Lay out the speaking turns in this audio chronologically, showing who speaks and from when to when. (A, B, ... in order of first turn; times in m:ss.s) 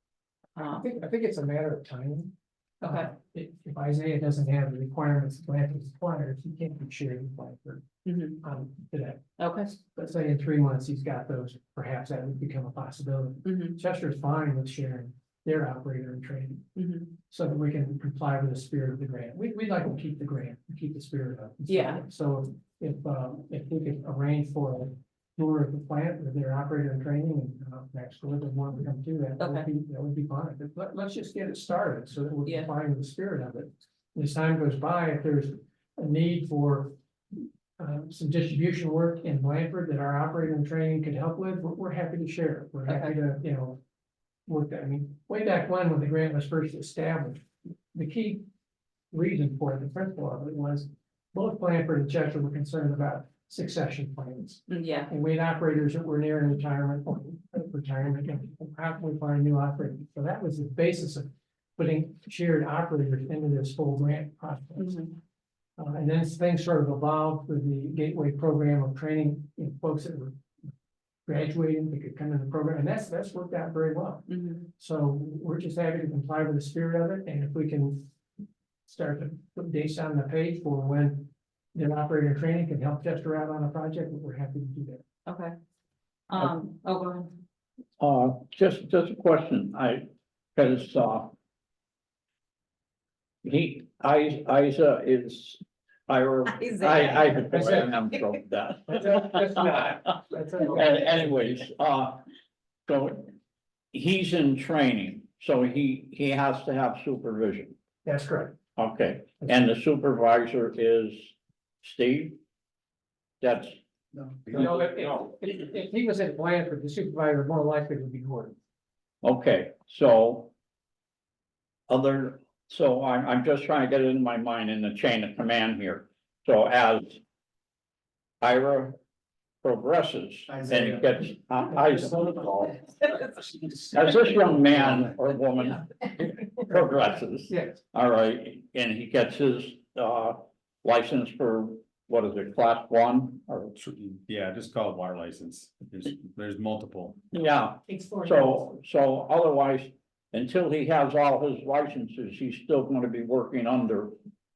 0:00.6-0:00.9 A
0:00.8-0:07.8 B
0:02.8-0:03.1 A
0:08.0-0:08.4 A
0:08.4-0:09.2 B
0:09.4-0:09.7 A
0:09.8-0:16.7 B
0:13.4-0:13.8 A
0:16.8-0:17.2 A
0:17.3-0:37.0 B
0:21.7-0:22.1 A
0:29.4-0:29.7 A
0:32.4-0:32.7 A
0:37.8-0:43.8 B
0:42.9-0:43.1 A
0:44.5-0:48.4 B
0:49.1-1:05.0 B
0:54.7-0:55.1 A
1:04.8-1:05.2 A
1:05.8-1:10.4 B
1:11.3-1:18.1 B
1:14.3-1:14.7 A
1:18.9-1:25.0 B
1:25.3-1:25.5 A
1:26.3-1:27.4 A
1:28.0-1:31.3 C
1:33.4-1:39.6 C
1:36.5-1:37.9 A
1:37.5-1:37.9 B
1:38.9-1:41.3 B
1:40.6-1:42.2 C
1:42.9-1:43.3 C
1:43.9-1:47.8 C
1:48.0-1:48.6 B
1:48.8-1:52.4 C
1:53.4-1:54.3 C
1:54.5-1:58.6 B
1:59.2-2:00.5 C
2:01.9-2:07.2 C
2:08.4-2:09.0 C
2:09.6-2:12.8 C
2:13.6-2:13.9 B
2:13.9-2:23.7 C
2:17.5-2:17.8 B
2:23.8-2:27.2 D
2:27.3-2:34.2 C